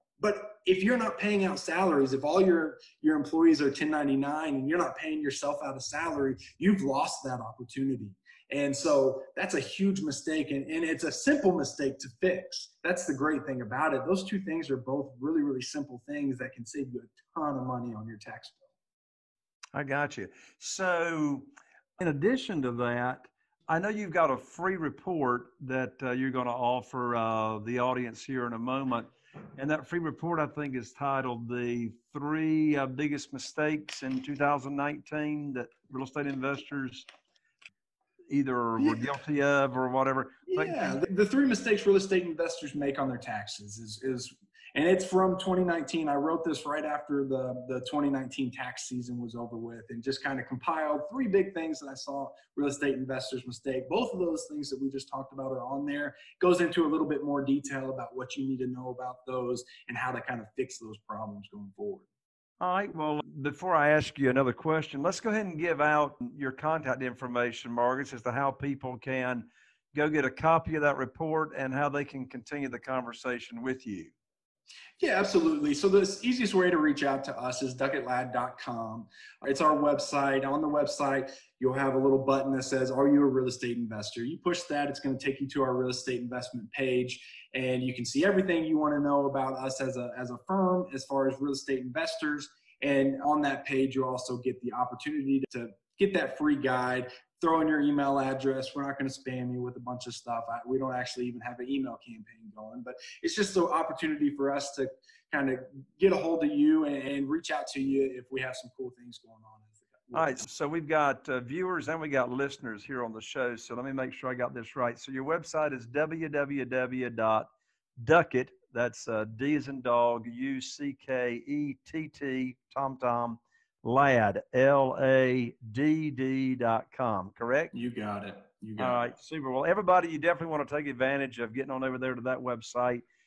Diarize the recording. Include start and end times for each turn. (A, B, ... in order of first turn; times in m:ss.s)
0:00.2-0:18.6 A
0:19.7-0:37.1 B
0:38.3-0:40.9 B
0:38.8-0:39.1 A
0:40.5-1:02.1 A
1:02.6-1:14.1 B
1:15.0-1:50.4 A
1:50.1-2:07.7 B
2:07.7-2:09.0 A
2:08.8-2:13.0 B